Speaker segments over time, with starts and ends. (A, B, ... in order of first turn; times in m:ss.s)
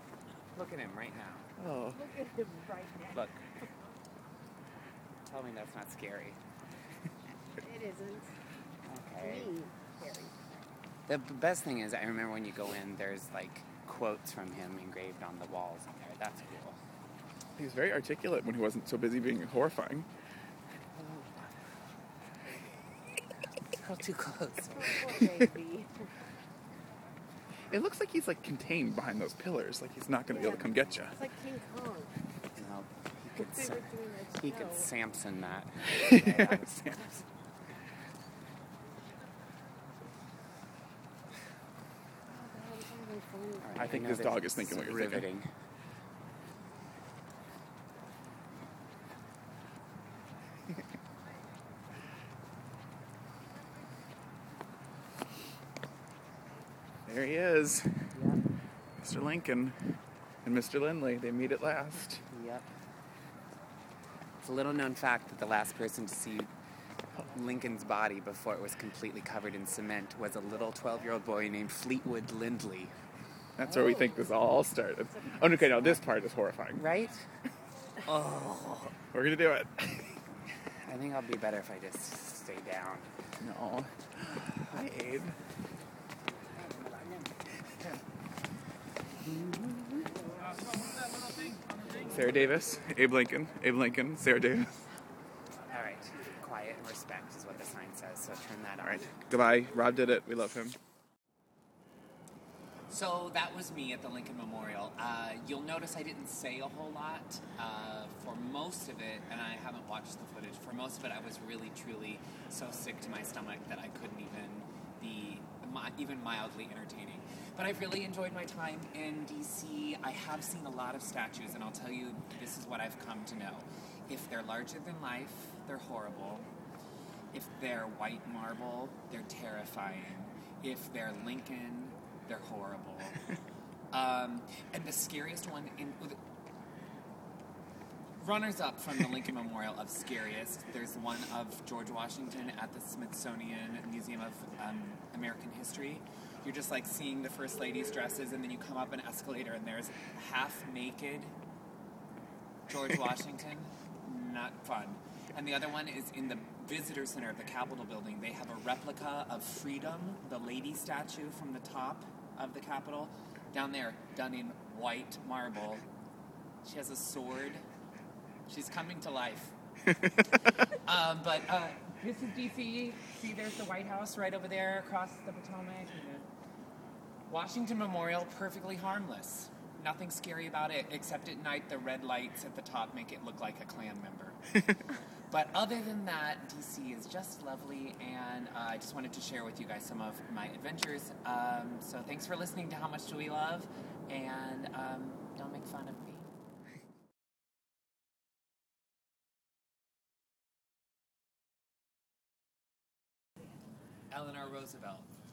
0:00.5-0:01.5 A
0:01.6-0:02.0 B
0:01.9-0:03.2 C
0:03.1-0:03.4 A
0:05.2-0:06.4 A
0:07.6-0:08.3 C
0:08.8-0:09.5 A
0:09.2-0:10.3 C
0:11.1-0:16.8 A
0:17.6-0:20.1 B
0:20.9-0:21.6 A
0:23.6-0:25.2 A
0:24.8-0:25.9 C
0:27.7-0:31.2 B
0:30.4-0:31.0 A
0:31.1-0:32.1 C
0:32.6-0:37.3 A
0:33.4-0:34.9 C
0:36.0-0:36.4 B
0:42.3-0:43.8 C
0:43.6-0:45.5 A
0:43.8-0:45.2 B
0:57.1-0:58.1 B
0:58.1-0:58.4 A
0:59.0-0:59.8 B
1:00.4-1:02.2 B
1:02.3-1:02.7 A
1:04.4-1:06.5 A
1:07.2-1:12.9 A
1:13.6-1:16.8 B
1:13.9-1:14.2 C
1:15.2-1:15.5 C
1:16.7-1:17.2 A
1:18.0-1:18.9 A
1:19.1-1:20.2 B
1:20.7-1:23.1 A
1:23.4-1:25.4 B
1:26.6-1:27.4 A
1:29.4-1:30.0 A
1:32.0-1:34.8 B
1:35.7-1:39.1 A
1:38.8-1:40.8 B
1:42.9-2:06.5 A
2:07.3-2:13.3 A
2:13.9-2:16.2 A
2:18.2-2:31.3 A
2:32.7-2:45.8 A
2:46.6-2:47.6 A
2:48.5-2:49.5 A
2:50.2-2:56.3 A
2:57.3-3:04.4 A
3:05.3-3:16.3 A
3:24.1-3:25.1 A